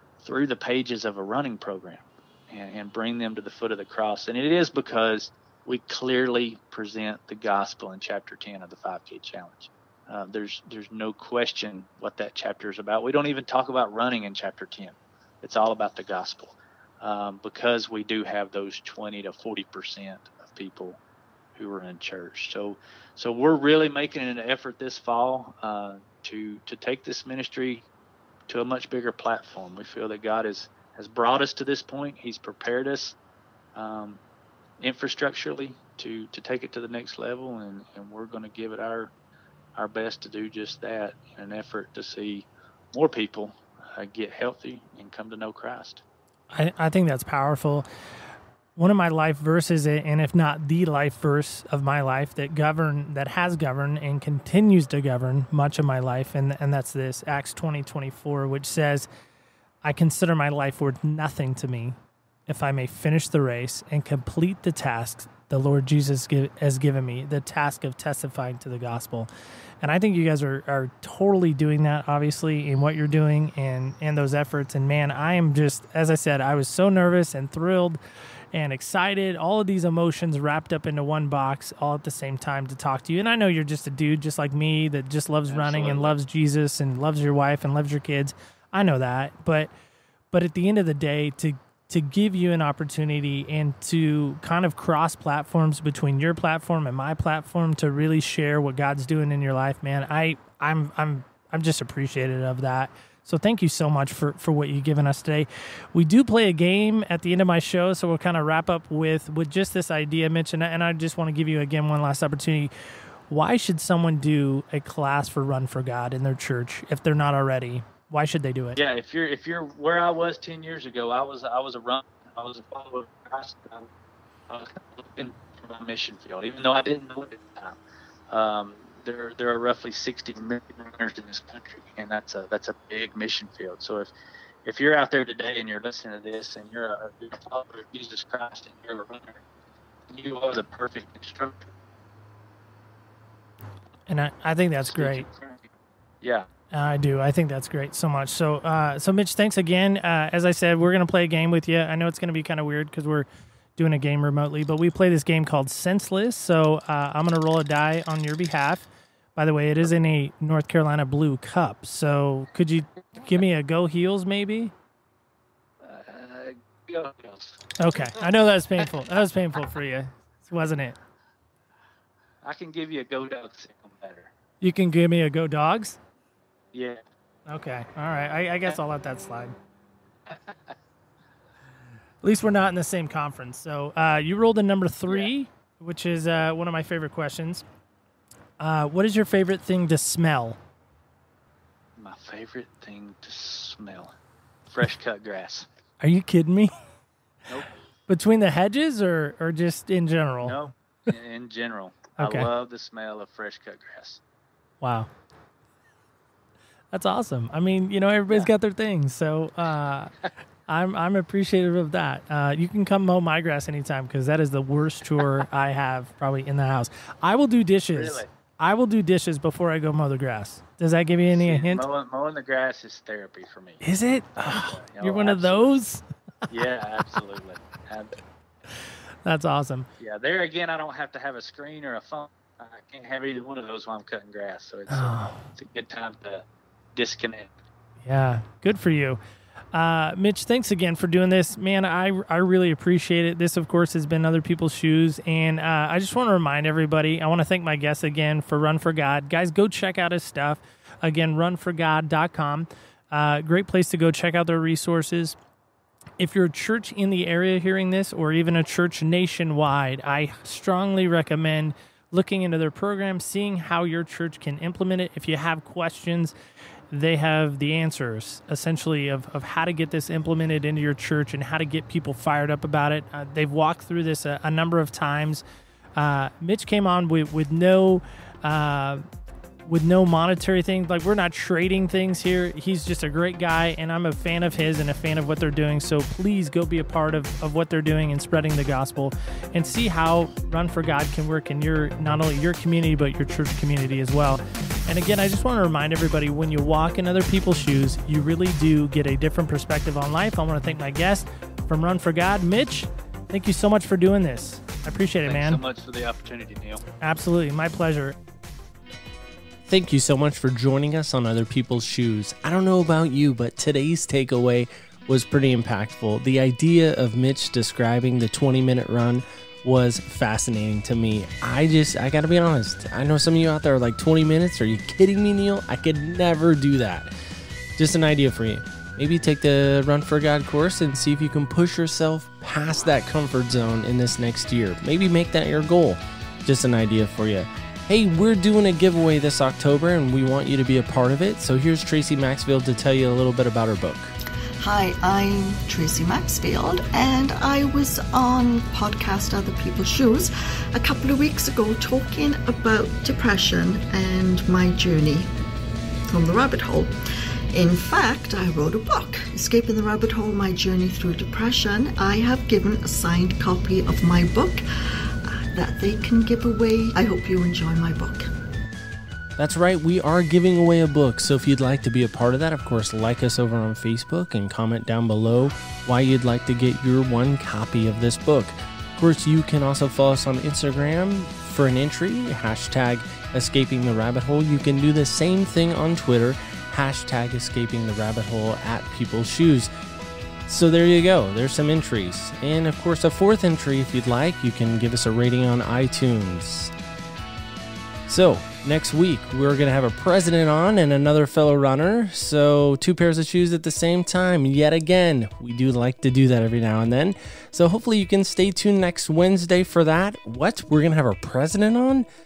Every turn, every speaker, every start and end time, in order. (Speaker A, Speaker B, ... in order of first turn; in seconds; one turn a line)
Speaker A: 0.2-21.0
Speaker A: 21.6-27.9
Speaker A: 28.5-33.2
Speaker A: 33.8-34.2
Speaker A: 34.8-39.1
Speaker A: 39.8-46.0
Speaker B: 46.5-47.9
Speaker B: 48.8-59.1
Speaker B: 59.8-62.0
Speaker B: 62.5-69.3
Speaker B: 69.8-78.0
Speaker B: 78.5-89.7
Speaker A: 85.5-86.2
Speaker B: 90.3-112.7
Speaker B: 113.3-118.8
Speaker A: 118.8-123.9
Speaker A: 124.5-127.8
Speaker A: 128.3-134.1
Speaker A: 134.7-139.4
Speaker A: 140.1-141.7
Speaker B: 144.1-145.3
Speaker A: 144.8-145.7
Speaker A: 146.2-146.5
Speaker B: 146.7-164.7
Speaker A: 165.8-168.3
Speaker B: 167.8-171.0
Speaker A: 172.4-174.3
Speaker B: 174.6-176.0
Speaker A: 176.7-177.0
Speaker B: 177.5-179.6
Speaker A: 180.3-180.7
Speaker B: 182.2-187.7
Speaker B: 188.6-190.6
Speaker A: 192.0-194.2
Speaker A: 194.7-195.7
Speaker B: 196.0-196.8
Speaker B: 198.1-200.6
Speaker A: 200.4-204.2
Speaker B: 202.2-202.5
Speaker B: 204.8-205.1
Speaker B: 206.9-210.1
Speaker B: 210.7-221.9
Speaker A: 217.9-218.3
Speaker A: 221.3-223.8
Speaker B: 223.8-226.0
Speaker A: 224.4-225.7
Speaker A: 226.5-228.2
Speaker B: 229.2-229.9
Speaker A: 230.0-237.6
Speaker B: 234.9-235.4
Speaker B: 238.0-239.2
Speaker B: 239.7-255.4
Speaker B: 256.2-266.3
Speaker B: 266.9-275.4
Speaker B: 275.9-279.0
Speaker B: 279.6-305.6
Speaker A: 305.2-306.9
Speaker B: 307.0-308.2
Speaker C: 309.7-327.1
Speaker C: 327.8-344.1
Speaker D: 344.6-355.3
Speaker D: 356.1-356.9
Speaker D: 357.5-368.3
Speaker C: 369.4-389.7
Speaker C: 390.5-396.7
Speaker C: 398.1-412.1